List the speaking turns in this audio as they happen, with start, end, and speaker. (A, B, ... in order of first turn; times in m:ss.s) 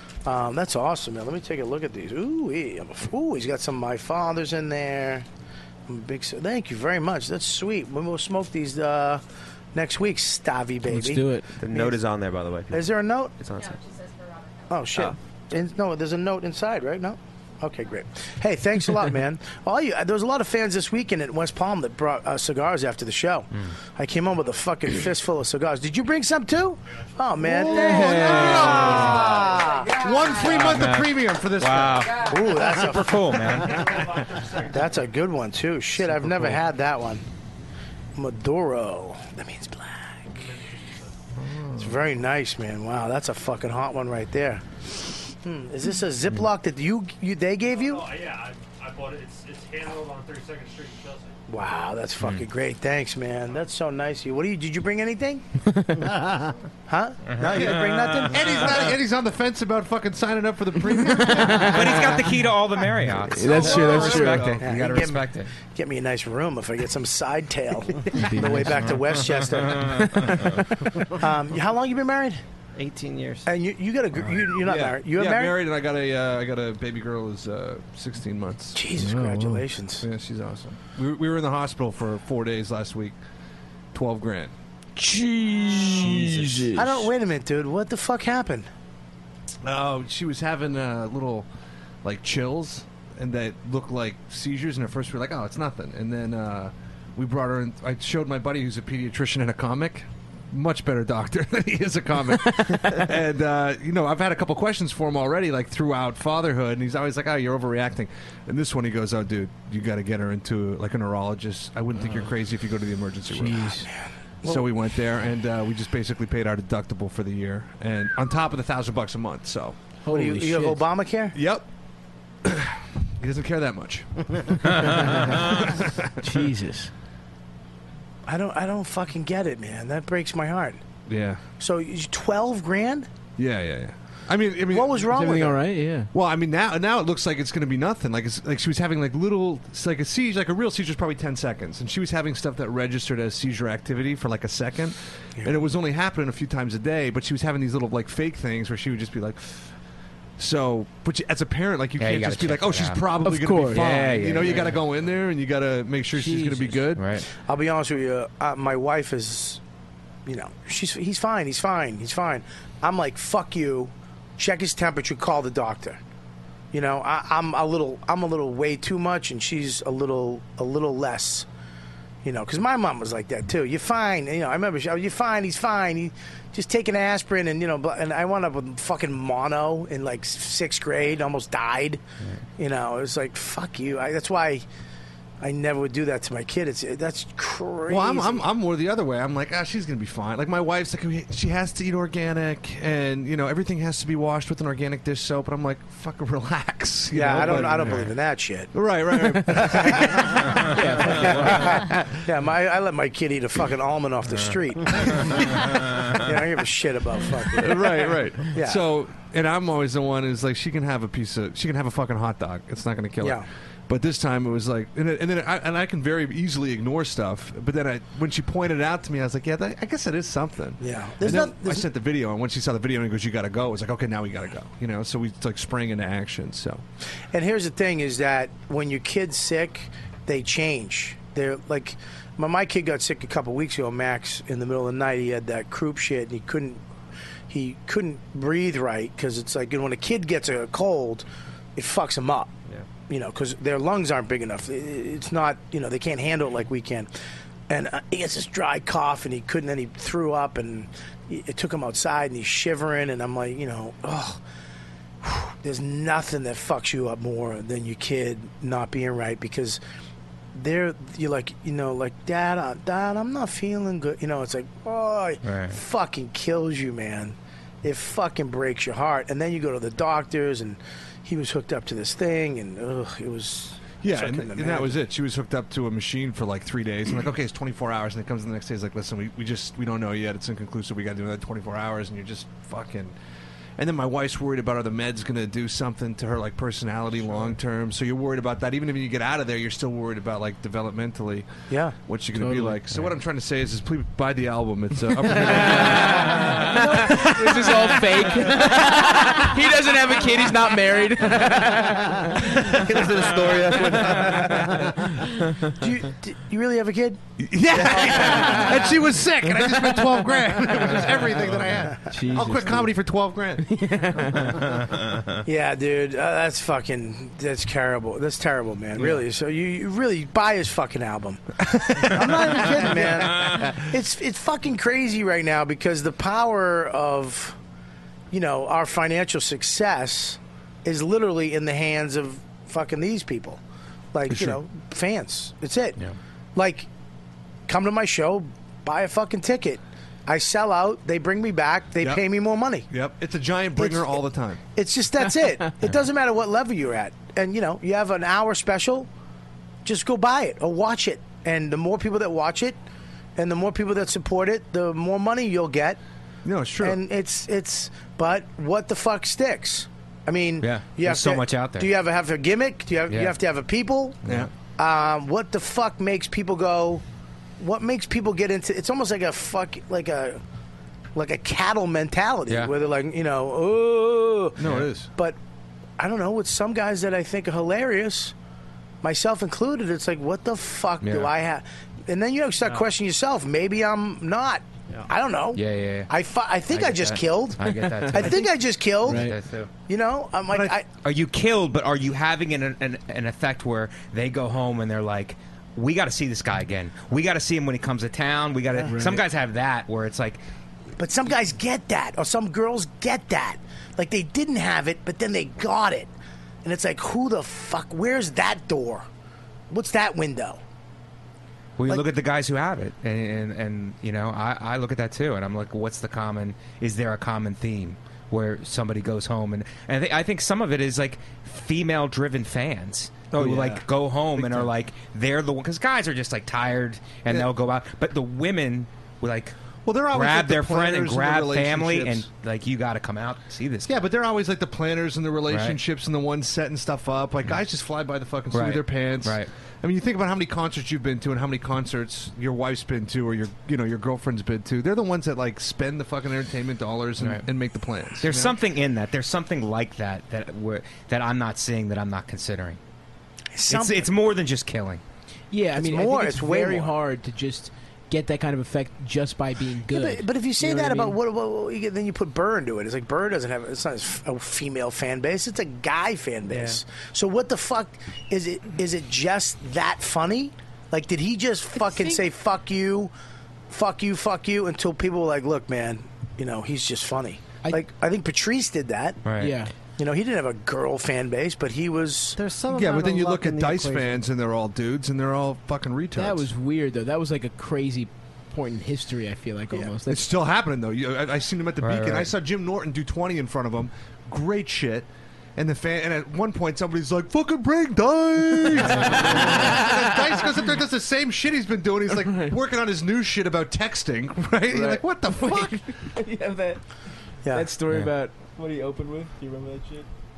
0:00.2-0:05.2 A
0:05.9-0:09.2 A
0:09.7-0:12.0 A
0:10.9-0:11.5 B
0:11.6-0:13.8 C
0:12.7-0:13.4 A
0:14.7-0:30.1 A
0:27.4-0:32.2 D
0:27.9-0:29.4 E
0:30.3-0:33.9 E
0:32.2-0:33.4 A
0:33.6-0:35.1 F
0:34.7-0:37.2 A
0:36.1-0:36.6 D
0:38.2-0:40.4 A
0:40.3-0:41.2 F
0:41.4-0:42.0 D
0:41.8-0:48.1 A
0:47.7-0:51.4 F
0:51.5-0:55.4 A
0:52.2-0:52.5 E
0:56.2-0:56.5 G
0:56.9-0:58.7 A
0:57.2-0:58.7 E
0:57.4-1:02.2 D
1:01.2-1:01.9 B
1:01.7-1:05.5 E
1:03.3-1:04.6 B
1:03.4-1:04.6 D
1:04.6-1:10.6 A
1:08.1-1:09.0 B
1:09.8-1:10.1 E
1:11.2-1:12.4 A
1:12.8-1:13.5 G
1:13.5-1:15.6 A
1:14.6-1:18.8 D
1:18.8-1:20.0 A
1:19.0-1:19.6 B
1:20.0-1:23.2 D
1:23.9-1:24.5 D
1:25.0-1:27.0 B
1:25.9-1:26.7 D
1:26.7-1:28.7 A
1:29.6-1:31.5 D
1:32.0-1:53.8 D
1:53.3-1:53.9 B
1:54.4-1:54.7 A
1:54.4-1:59.8 D
2:00.0-2:00.8 B
2:00.1-2:01.4 A
2:01.3-2:01.6 D
2:02.4-2:06.0 D
2:06.2-2:06.9 B
2:08.3-2:10.8 A
2:11.1-2:11.4 D
2:11.6-2:13.1 A
2:13.4-2:15.4 D
2:14.7-2:15.6 A
2:15.1-2:16.1 B
2:16.1-2:29.8 D
2:30.4-2:37.2 D
2:32.0-2:33.0 E
2:33.2-2:34.1 B
2:33.7-2:34.7 E
2:36.2-2:36.8 B
2:37.0-2:37.3 E
2:37.4-2:39.6 A
2:40.3-2:46.0 A
2:46.7-2:51.5 A
2:52.2-3:02.0 A
3:02.6-3:04.6 A
3:05.4-3:08.4 A
3:07.9-3:18.1 D
3:17.1-3:18.8 A
3:18.7-3:21.8 D
3:19.3-3:19.6 B
3:19.5-3:20.4 A
3:20.7-3:21.8 B
3:21.0-3:28.8 A
3:27.6-3:46.8 D
3:33.2-3:33.5 A
3:40.8-3:41.9 A
3:47.3-3:56.8 A
3:57.5-4:01.2 A
4:01.8-4:02.5 A
4:03.1-4:07.1 A
4:07.7-4:14.4 A
4:15.2-4:19.8 A
4:20.5-4:35.0 A
4:25.4-4:25.8 E
4:34.0-4:43.1 D
4:43.8-4:51.5 D
4:51.7-4:52.0 A
4:52.0-4:57.8 D
4:52.4-4:52.8 B
4:55.3-5:02.3 B
4:56.8-4:57.3 A
5:02.5-5:04.7 C
5:03.8-5:04.9 D
5:05.8-5:07.2 A
5:07.4-5:13.7 D
5:07.9-5:08.7 A
5:12.1-5:13.0 B
5:13.6-5:14.6 B
5:15.4-5:27.6 A
5:22.0-5:23.0 D
5:28.3-5:33.6 A
5:34.1-5:36.0 A
5:34.3-5:34.6 D
5:36.6-5:36.9 A
5:37.7-5:42.9 A
5:42.9-5:44.6 D
5:43.8-5:44.2 A
5:44.7-5:49.1 A
5:49.8-5:52.8 A
5:53.4-5:56.0 A
5:56.4-5:57.0 D
5:56.8-6:04.2 A
6:00.6-6:01.9 E
6:03.1-6:03.4 E
6:04.2-6:04.5 D
6:04.8-6:07.0 A
6:07.6-6:10.4 A
6:11.2-6:15.4 A
6:14.6-6:15.1 D
6:16.0-6:18.3 A
6:19.0-6:27.6 A
6:21.0-6:21.3 E
6:25.5-6:26.1 E
6:26.7-6:29.7 E
6:27.8-6:28.5 B
6:28.1-6:29.3 A
6:29.1-6:29.4 B
6:29.9-6:30.9 A
6:30.5-6:30.7 D
6:31.0-6:40.4 E
6:38.8-6:39.3 B
6:41.0-6:46.1 A
6:46.6-6:49.1 A
6:49.7-6:50.6 A
6:51.8-7:09.5 E
7:03.3-7:04.7 D
7:09.9-7:12.2 D
7:10.1-7:13.9 E
7:13.9-7:28.6 D
7:15.5-7:15.8 E
7:18.5-7:19.5 E
7:27.2-7:27.5 E
7:28.2-7:32.8 E
7:33.6-7:34.1 A
7:33.7-7:35.0 E
7:35.5-7:41.2 B
7:35.8-7:37.0 A
7:39.9-7:53.1 A
7:51.8-7:52.2 B
7:53.7-7:59.2 A
7:59.2-7:59.6 E
7:59.4-7:59.7 B
8:00.0-8:02.4 A
8:02.4-8:04.2 G
8:02.7-8:06.5 D
8:06.2-8:10.3 B
8:10.1-8:25.9 D
8:11.8-8:12.3 E
8:18.8-8:20.2 B
8:22.2-8:22.5 B
8:24.7-8:26.8 B
8:27.4-8:27.7 A
8:27.5-8:30.1 B